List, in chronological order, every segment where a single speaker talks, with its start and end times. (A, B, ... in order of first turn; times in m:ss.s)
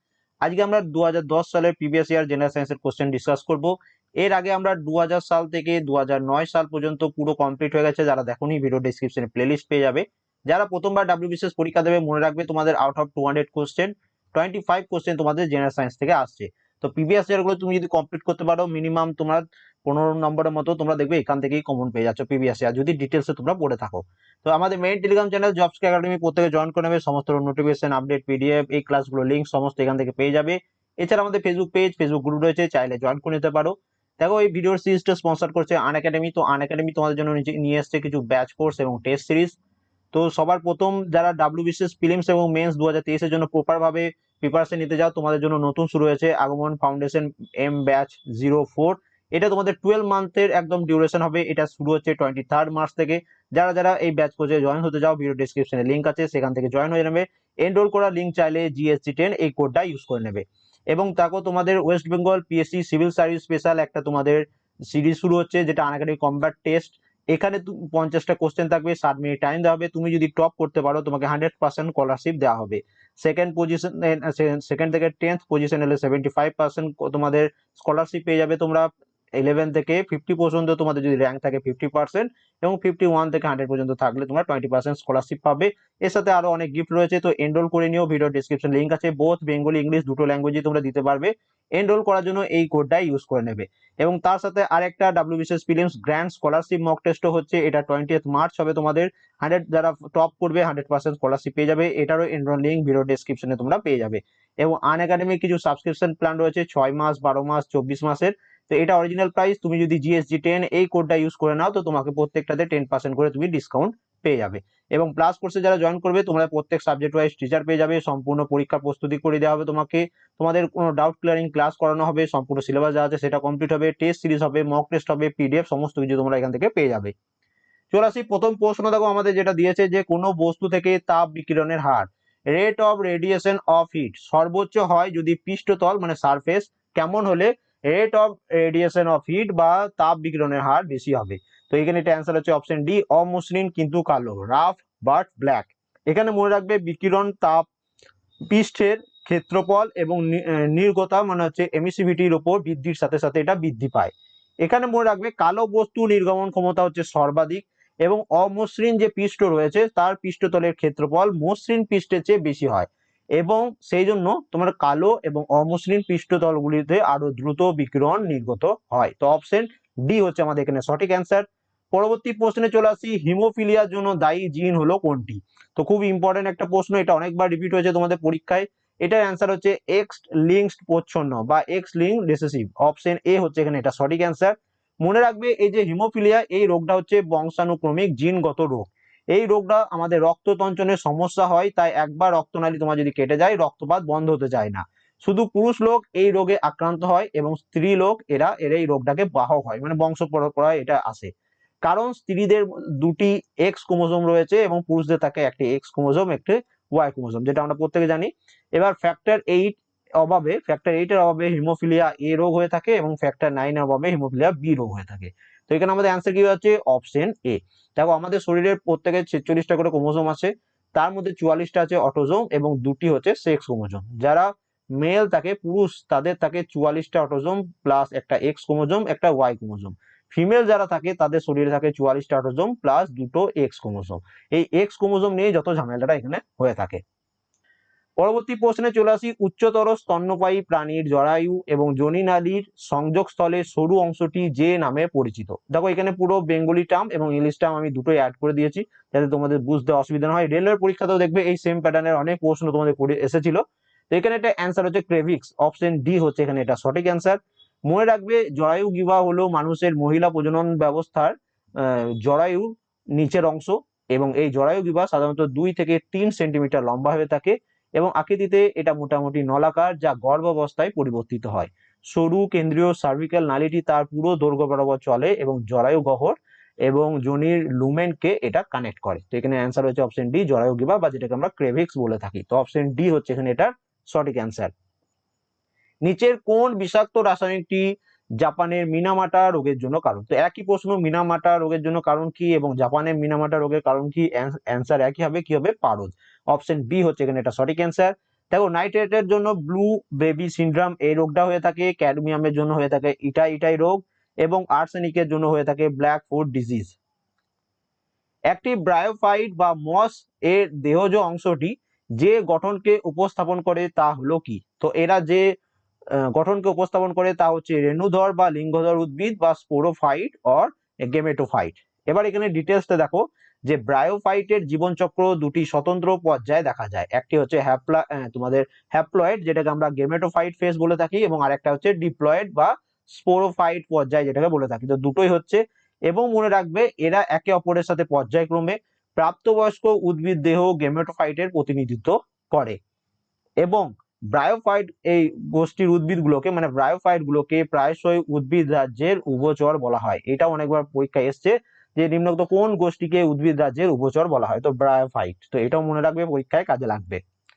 0:00.4-0:39.6 A
0:40.1-2:07.1 A
2:07.9-2:27.7 A
2:28.5-2:34.1 A
2:34.6-3:21.3 A
3:21.8-3:57.0 A
3:58.2-4:44.7 A
4:46.0-5:07.0 A
5:08.5-5:15.4 A
5:16.1-5:42.8 A
5:43.6-5:57.2 A